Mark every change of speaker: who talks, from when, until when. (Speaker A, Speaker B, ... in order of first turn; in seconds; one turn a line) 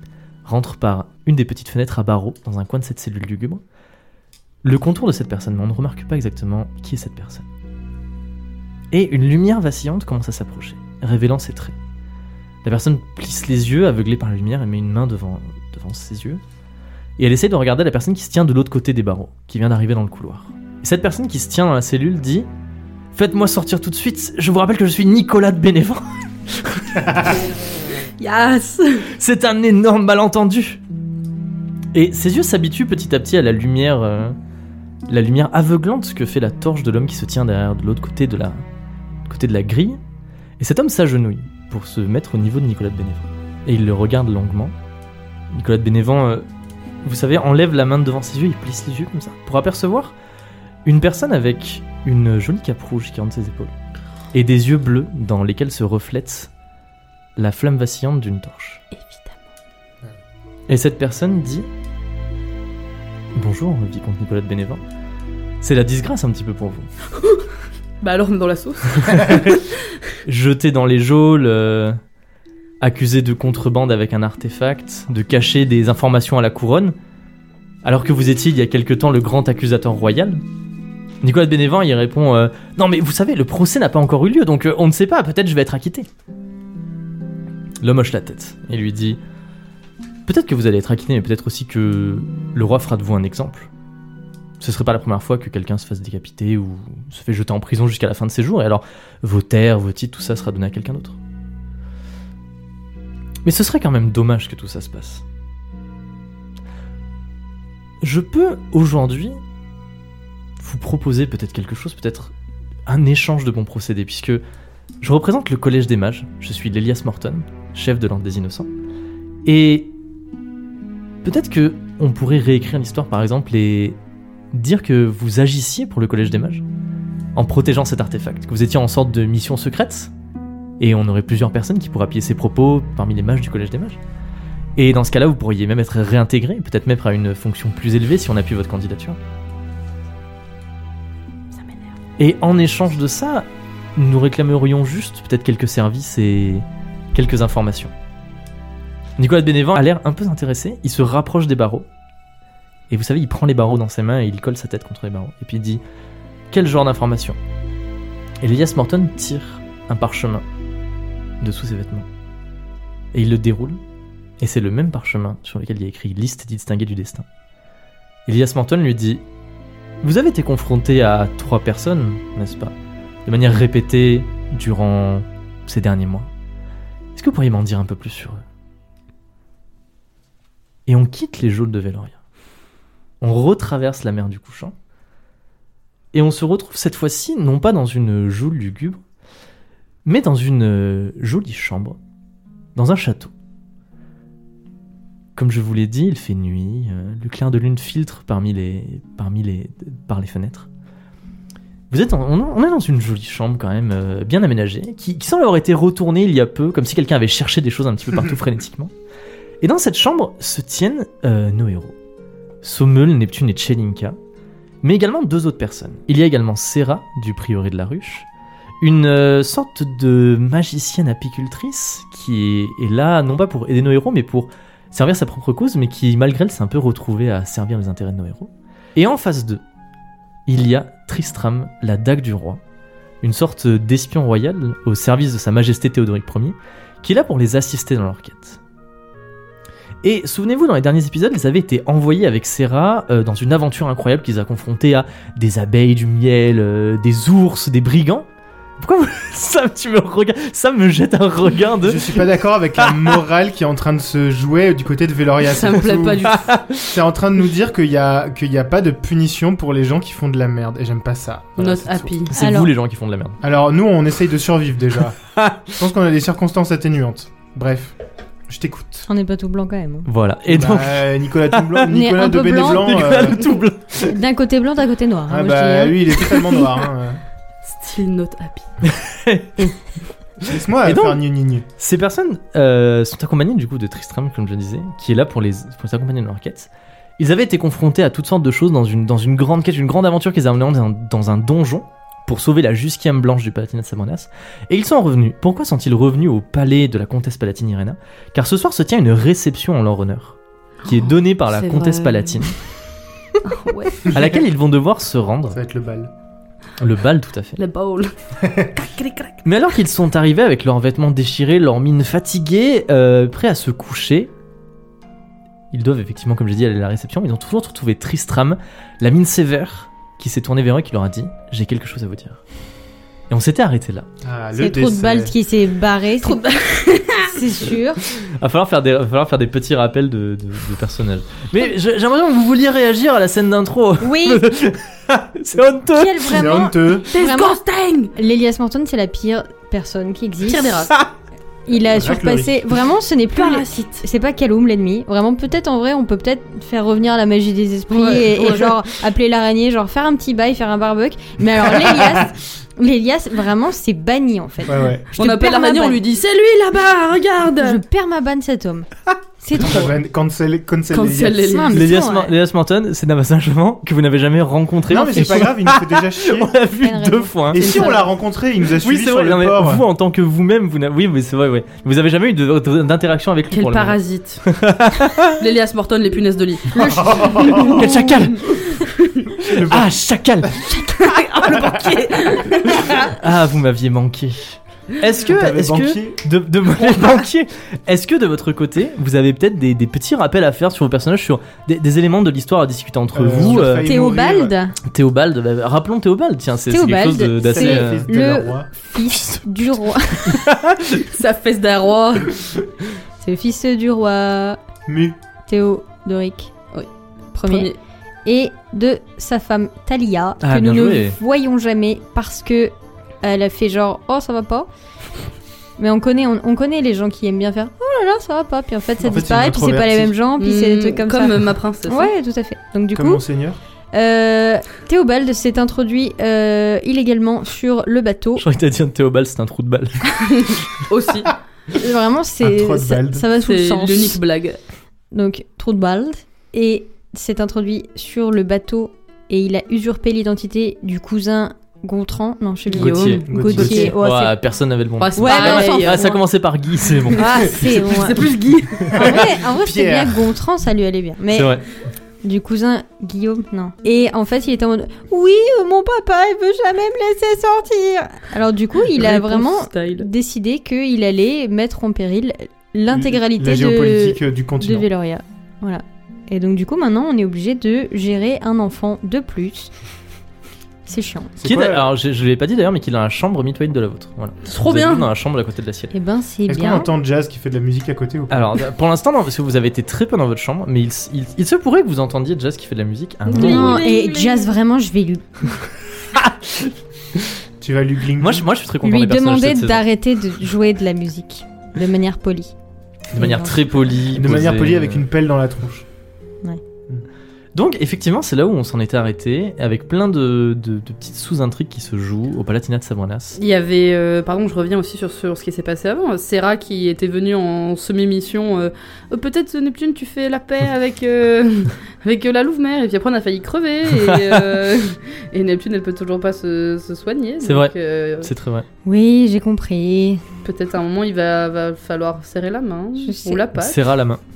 Speaker A: 0.5-3.6
Speaker A: 4.6-7.5
Speaker A: 8.9-11.8
Speaker A: 12.6-16.4
Speaker A: 17.2-22.5
Speaker A: 23.1-27.2
Speaker B: 28.2-29.1
Speaker A: 29.1-30.8
Speaker A: 31.9-34.4
Speaker A: 35.1-38.6
Speaker A: 39.2-40.0
Speaker A: 40.6-44.7
Speaker A: 45.5-46.5
Speaker A: 47.0-50.1
Speaker A: 50.9-53.7
Speaker A: 54.3-56.5
Speaker A: 57.4-58.8
Speaker B: 58.9-59.5
Speaker A: 60.7-61.7
Speaker A: 63.4-64.8
Speaker A: 65.6-66.9
Speaker B: 68.0-69.7
Speaker A: 69.0-69.6
Speaker A: 70.2-72.0
Speaker A: 72.8-77.0
Speaker A: 77.8-80.4
Speaker A: 81.2-86.1
Speaker A: 87.8-89.2
Speaker A: 90.2-93.7
Speaker A: 94.6-101.2
Speaker A: 103.5-105.2
Speaker A: 108.0-109.4
Speaker A: 110.6-112.3
Speaker A: 112.9-114.4
Speaker A: 115.0-118.7
Speaker A: 119.5-119.9
Speaker A: 121.2-124.0
Speaker A: 124.5-126.6
Speaker A: 127.4-130.1
Speaker A: 130.8-134.0
Speaker A: 134.8-139.2
Speaker A: 142.2-147.9
Speaker A: 149.2-151.9
Speaker A: 152.9-155.8
Speaker A: 156.5-157.4
Speaker A: 158.4-160.4
Speaker A: 161.4-162.1
Speaker A: 163.1-163.8
Speaker A: 164.4-167.2
Speaker A: 168.3-169.2
Speaker A: 170.0-172.7
Speaker A: 173.2-176.3
Speaker A: 177.1-178.4
Speaker A: 180.9-182.2
Speaker A: 183.2-184.7
Speaker A: 186.1-189.0
Speaker A: 190.1-192.0
Speaker A: 192.8-193.3
Speaker A: 195.4-200.7
Speaker A: 201.9-208.9
Speaker A: 209.6-211.9
Speaker A: 212.6-214.2
Speaker A: 214.8-218.3
Speaker A: 218.8-229.6
Speaker A: 230.5-232.6
Speaker A: 233.2-238.6
Speaker A: 240.0-248.3
Speaker A: 248.8-252.2
Speaker C: 251.8-256.3
Speaker A: 252.8-253.1
Speaker B: 255.4-256.5
Speaker A: 256.3-257.0
Speaker C: 256.8-262.3
Speaker B: 261.6-262.3
Speaker A: 262.3-263.4
Speaker D: 262.4-262.7
Speaker C: 263.4-268.0
Speaker A: 265.4-265.7
Speaker C: 268.5-269.1
Speaker D: 269.1-270.1
Speaker A: 270.1-271.8
Speaker C: 270.5-273.4
Speaker D: 271.9-273.0
Speaker A: 272.6-274.2
Speaker D: 274.0-276.6
Speaker C: 275.3-277.2
Speaker B: 277.6-278.7
Speaker A: 278.8-279.8
Speaker A: 280.4-281.2
Speaker C: 280.4-281.6
Speaker A: 281.8-302.6
Speaker B: 300.9-302.5
Speaker B: 303.4-304.3
Speaker A: 304.1-305.6
Speaker C: 305.5-306.1
Speaker A: 306.8-307.6
Speaker B: 307.6-308.1
Speaker C: 308.4-308.7
Speaker B: 308.7-309.4
Speaker A: 309.4-314.3
Speaker A: 315.7-322.4
Speaker A: 323.3-324.1
Speaker C: 324.2-325.4
Speaker D: 324.6-326.4
Speaker B: 326.2-327.4
Speaker D: 327.2-328.0
Speaker A: 328.2-336.5
Speaker D: 334.0-334.4
Speaker D: 335.9-337.6
Speaker C: 336.3-337.1
Speaker B: 337.1-338.1
Speaker D: 338.1-340.9
Speaker B: 340.4-340.9
Speaker D: 341.7-356.0
Speaker C: 341.9-342.8
Speaker B: 343.4-344.1
Speaker B: 347.9-348.8
Speaker C: 354.6-355.1
Speaker B: 355.1-357.8
Speaker D: 357.6-358.9
Speaker D: 359.4-359.9
Speaker C: 359.5-361.6
Speaker B: 360.9-361.9
Speaker D: 361.4-362.3
Speaker A: 361.7-367.9
Speaker C: 364.9-366.6
Speaker D: 366.8-367.8
Speaker C: 367.5-369.8
Speaker B: 367.6-368.1
Speaker A: 368.8-375.4
Speaker B: 373.5-374.4
Speaker B: 375.4-377.8
Speaker D: 376.7-377.9
Speaker C: 376.8-377.9
Speaker A: 377.6-378.5
Speaker B: 378.4-379.3
Speaker C: 379.4-379.9
Speaker A: 379.4-380.9
Speaker B: 380.8-383.1
Speaker A: 382.9-393.9
Speaker C: 385.2-386.2
Speaker C: 393.1-394.6
Speaker D: 393.5-394.8
Speaker A: 394.9-398.1
Speaker D: 396.7-400.5
Speaker C: 397.4-398.7
Speaker A: 399.1-399.4
Speaker A: 400.2-401.1
Speaker B: 401.0-402.5
Speaker D: 403.2-404.6
Speaker C: 404.9-405.2
Speaker D: 405.5-406.5
Speaker D: 407.3-407.7
Speaker B: 407.5-407.8
Speaker D: 408.2-414.7
Speaker A: 410.4-411.1
Speaker D: 415.8-423.2
Speaker C: 419.0-420.1
Speaker B: 420.4-422.1
Speaker C: 422.9-423.6
Speaker D: 423.9-428.4
Speaker A: 428.4-430.1
Speaker B: 430.1-431.3
Speaker D: 431.7-434.2
Speaker C: 432.4-433.3
Speaker B: 433.4-434.6
Speaker D: 435.1-444.4
Speaker B: 442.6-443.9
Speaker A: 442.8-447.3
Speaker C: 443.3-443.8
Speaker B: 445.0-446.2
Speaker D: 445.1-446.1
Speaker B: 447.0-449.1
Speaker D: 447.1-448.3
Speaker C: 448.9-450.3
Speaker D: 448.9-451.5
Speaker A: 451.3-451.6
Speaker D: 452.2-469.7
Speaker B: 458.9-460.1
Speaker C: 462.9-464.9
Speaker D: 470.9-471.4
Speaker C: 471.4-471.9
Speaker A: 471.4-475.9
Speaker B: 474.4-475.1
Speaker D: 475.9-476.9
Speaker C: 476.5-478.6
Speaker A: 478.3-483.9
Speaker D: 483.3-485.5
Speaker B: 483.3-484.6
Speaker A: 486.1-487.4
Speaker C: 487.6-488.5
Speaker A: 488.2-489.8
Speaker D: 488.8-492.5
Speaker A: 493.1-495.1
Speaker D: 493.1-493.8
Speaker C: 494.1-495.9
Speaker A: 497.6-503.4
Speaker B: 503.4-518.3
Speaker A: 513.9-514.4
Speaker A: 517.4-518.6
Speaker D: 518.9-520.2
Speaker B: 520.4-523.8
Speaker D: 523.0-523.4
Speaker A: 523.6-524.2